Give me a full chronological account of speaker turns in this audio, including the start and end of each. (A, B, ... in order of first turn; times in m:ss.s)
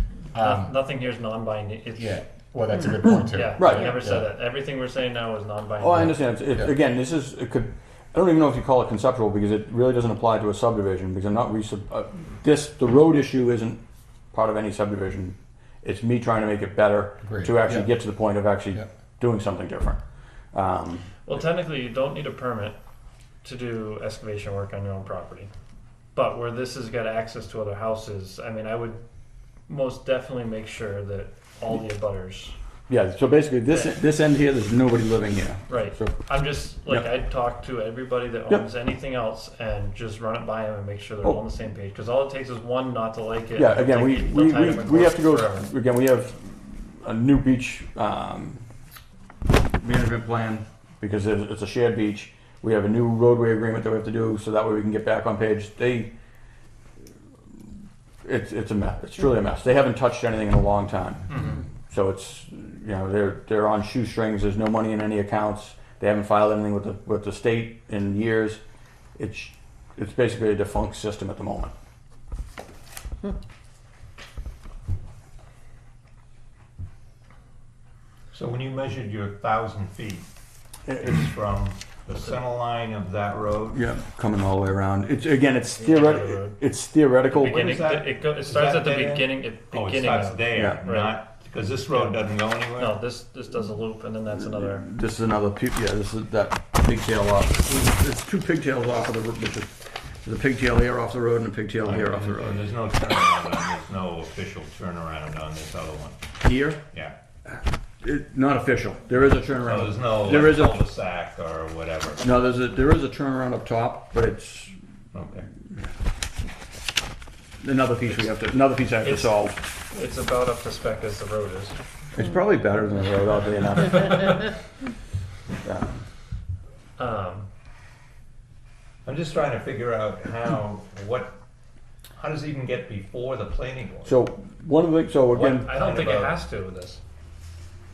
0:00.3-0:00.8 A
0:00.4-0:02.2 B
0:02.0-0:04.3 A
0:03.3-0:06.2 B
0:03.6-0:04.0 C
0:05.8-0:13.8 C
0:14.3-0:20.0 C
0:17.2-0:17.9 A
0:20.5-0:21.1 C
0:21.3-0:22.8 B
0:23.4-0:25.5 B
0:26.1-0:29.0 B
0:29.7-0:32.6 B
0:32.9-0:36.2 C
0:33.7-0:34.0 B
0:35.7-0:45.7 B
0:43.6-0:48.6 C
0:49.7-0:56.1 C
0:58.2-1:08.6 C
1:01.3-1:01.6 B
1:09.2-1:11.7 C
1:18.3-1:20.3 D
1:20.9-1:21.2 C
1:21.0-1:23.8 D
1:23.7-1:27.6 C
1:25.8-1:26.6 B
1:27.3-1:31.2 B
1:27.4-1:33.0 D
1:30.5-1:30.8 C
1:31.9-1:34.9 B
1:34.5-1:42.6 C
1:41.8-1:46.2 D
1:46.4-1:46.8 C
1:47.5-1:50.8 C
1:49.6-1:52.2 D
1:52.2-1:54.8 C
1:55.1-1:55.5 D
1:57.6-1:59.6 C
1:59.0-2:01.8 B
2:02.2-2:04.4 C
2:04.0-2:04.3 B
2:05.6-2:06.0 C
2:07.0-2:07.5 B
2:09.0-2:11.4 D
2:12.2-2:14.2 D
2:14.0-2:15.7 C
2:15.4-2:16.4 D
2:15.4-2:17.0 B